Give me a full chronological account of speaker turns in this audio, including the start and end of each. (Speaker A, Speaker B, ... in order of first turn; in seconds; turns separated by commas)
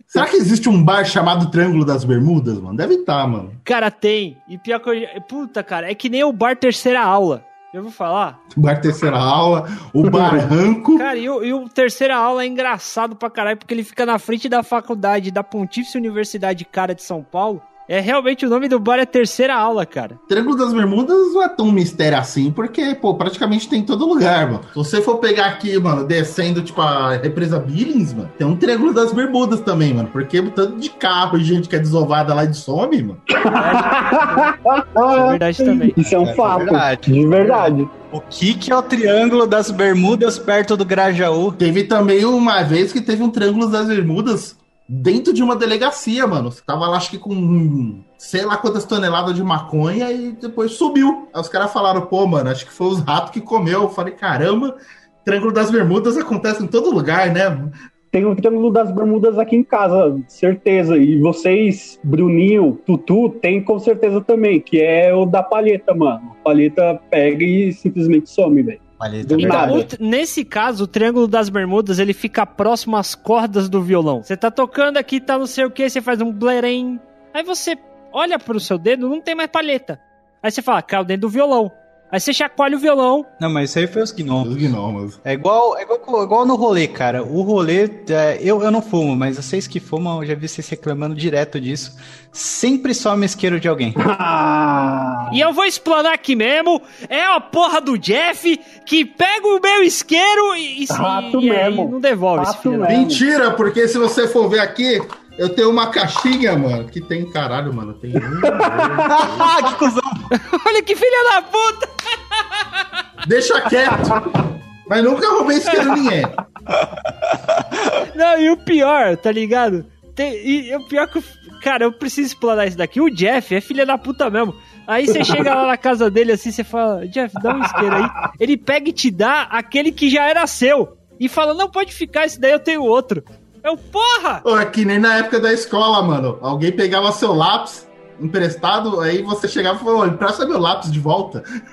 Speaker A: 0.1-3.6, Speaker B: 3.6-8.4, Speaker A: 8.5-11.1, Speaker C: 10.1-10.4, Speaker B: 10.9-20.2, Speaker A: 20.3-33.2, Speaker C: 33.3-37.9, Speaker B: 33.5-34.5, Speaker B: 35.1-36.0, Speaker D: 36.0-41.6, Speaker A: 41.6-57.7, Speaker C: 58.1-69.9, Speaker D: 69.0-69.9, Speaker B: 69.3-83.3, Speaker D: 83.4-84.5, Speaker A: 84.4-85.2, Speaker D: 85.2-94.0, Speaker C: 94.0-95.4, Speaker B: 95.3-102.9, Speaker C: 100.9-103.2, Speaker A: 102.9-109.8, Speaker C: 108.4-109.1, Speaker D: 109.0-110.3, Speaker B: 110.3-112.6, Speaker A: 113.2-116.4, Speaker D: 116.8-117.8, Speaker B: 118.1-134.4, Speaker A: 134.4-141.4